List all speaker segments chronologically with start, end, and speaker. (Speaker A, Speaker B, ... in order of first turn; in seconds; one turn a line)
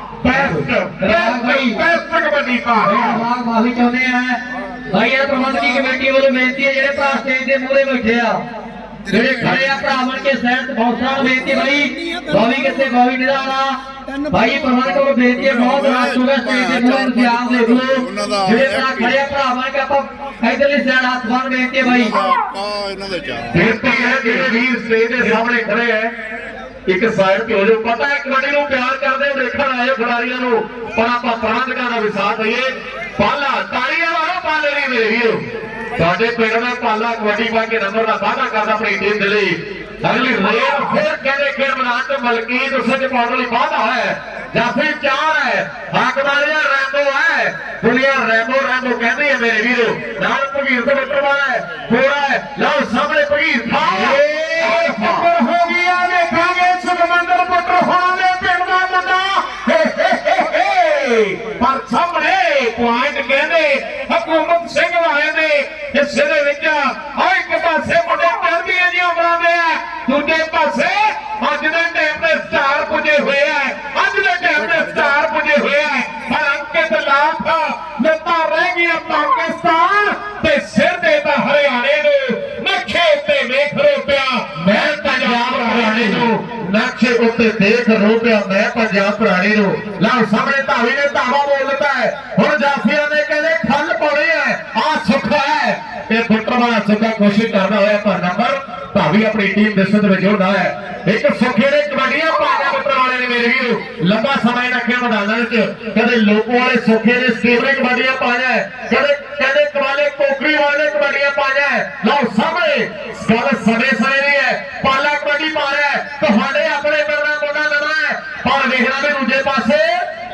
Speaker A: 0.2-3.2
Speaker B: 0.3-1.8
Speaker B: 2.8-4.4
Speaker B: 4.9-8.4
Speaker B: 9.1-13.8
Speaker B: 14.3-22.2
Speaker C: 15.6-19.1
Speaker C: 22.1-23.5
Speaker D: 23.5-26.1
Speaker A: 23.6-25.4
Speaker D: 26.9-35.4
Speaker D: 36.0-55.2
Speaker A: 53.8-86.3
Speaker D: 84.6-120.0